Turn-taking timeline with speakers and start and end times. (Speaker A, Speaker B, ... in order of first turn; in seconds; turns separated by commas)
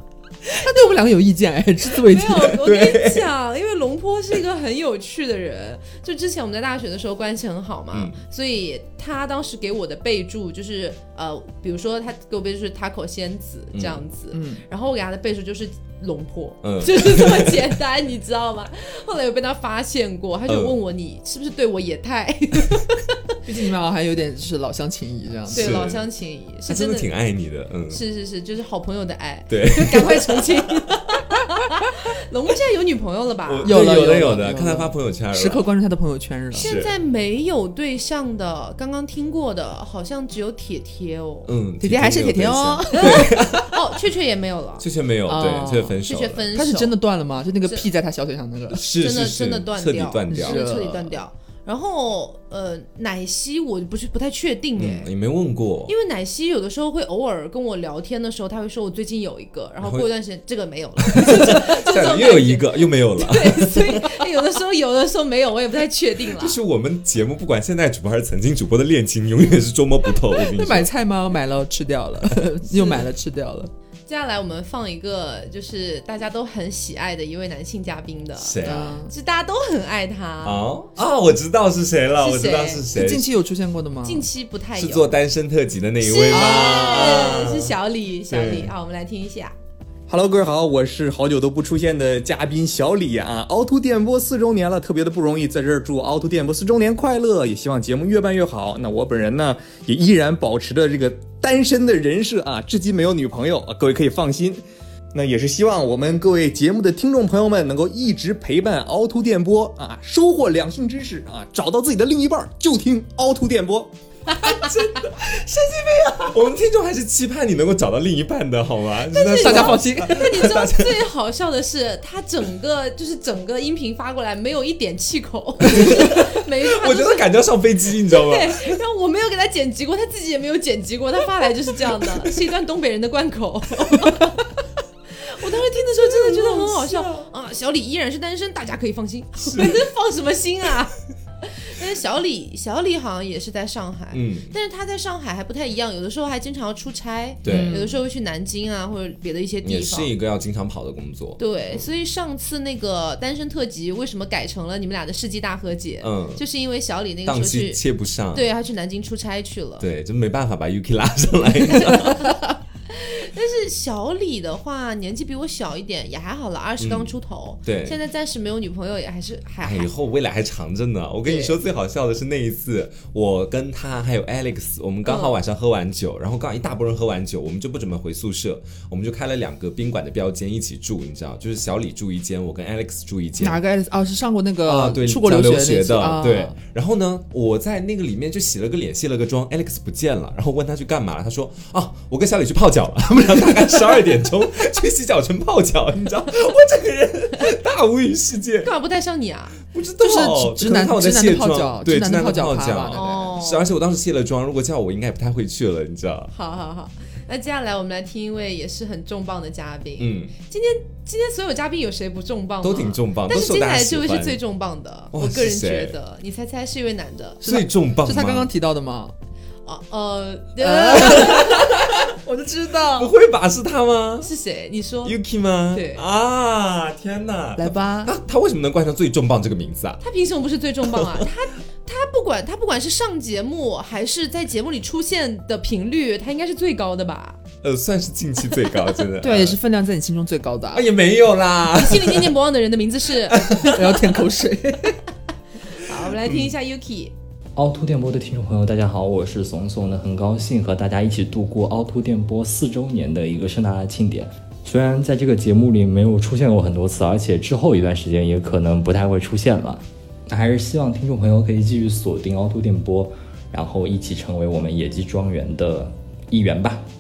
Speaker A: 0.4-2.5, Speaker B: 2.1-23.0, Speaker C: 2.5-3.3, Speaker C: 7.9-8.2, Speaker C: 13.7-14.0, Speaker A: 14.3-14.6, Speaker C: 16.6-17.7, Speaker C: 20.5-20.8, Speaker A: 23.4-25.8, Speaker C: 25.5-26.1, Speaker B: 25.5-27.1, Speaker C: 26.6-28.0, Speaker B: 27.9-34.3, Speaker C: 29.5-30.5, Speaker C: 33.5-35.6, Speaker A: 33.6-36.7, Speaker B: 36.5-41.5, Speaker C: 36.5-36.9, Speaker C: 41.5-43.7, Speaker A: 41.8-43.5, Speaker B: 42.9-44.9, Speaker C: 44.8-46.5, Speaker A: 45.3-46.0, Speaker B: 46.0-47.0, Speaker A: 46.5-48.8, Speaker C: 48.7-50.6, Speaker B: 48.8-55.1, Speaker A: 50.3-51.2, Speaker C: 54.8-55.9, Speaker B: 55.9-66.6, Speaker C: 59.8-60.1, Speaker C: 61.0-64.0, Speaker C: 66.4-70.9, Speaker A: 70.5-73.7, Speaker B: 72.7-73.0, Speaker B: 74.1-80.7, Speaker C: 78.4-79.0, Speaker A: 78.6-79.1, Speaker C: 80.4-83.3, Speaker B: 82.2-82.8, Speaker A: 82.9-84.3, Speaker B: 84.0-85.1, Speaker C: 84.8-87.7, Speaker B: 86.0-89.5, Speaker A: 86.3-87.3, Speaker C: 88.3-88.7, Speaker D: 90.1-104.6, Speaker D: 105.1-113.9, Speaker C: 114.5-115.0, Speaker A: 115.3-116.2, Speaker C: 116.3-121.0, Speaker B: 119.1-127.3, Speaker A: 119.3-120.3, Speaker C: 125.7-128.7, Speaker B: 128.1-134.4, Speaker B: 135.2-150.1, Speaker C: 136.2-137.2, Speaker C: 139.4-139.8, Speaker C: 144.1-144.5, Speaker C: 147.4-147.8, Speaker A: 147.5-147.9, Speaker C: 149.6-151.8, Speaker B: 151.4-159.9, Speaker C: 156.0-156.4, Speaker C: 157.2-158.5, Speaker C: 159.8-162.2, Speaker B: 162.9-169.9, Speaker C: 166.8-168.0, Speaker C: 169.6-183.6, Speaker B: 171.2-171.6, Speaker B: 175.0-175.4, Speaker A: 183.4-186.6, Speaker C: 184.7-198.7, Speaker B: 198.6-199.6, Speaker C: 199.7-206.3, Speaker A: 200.0-203.3, Speaker B: 202.9-203.7, Speaker B: 206.3-217.4, Speaker C: 210.0-210.3, Speaker C: 212.6-214.4, Speaker C: 215.1-215.9, Speaker C: 217.4-218.5, Speaker A: 217.4-219.1, Speaker B: 219.7-221.8, Speaker A: 220.6-223.1, Speaker C: 222.9-224.3, Speaker B: 224.2-225.2, Speaker C: 225.0-230.0, Speaker B: 225.7-226.0, Speaker A: 227.6-228.1, Speaker B: 230.0-237.4, Speaker C: 230.8-231.2, Speaker C: 237.6-239.6, Speaker A: 239.2-240.9, Speaker C: 240.7-242.3, Speaker B: 241.7-243.6, Speaker A: 243.5-245.0, Speaker B: 245.8-247.1, Speaker C: 246.2-246.5, Speaker E: 247.6-266.9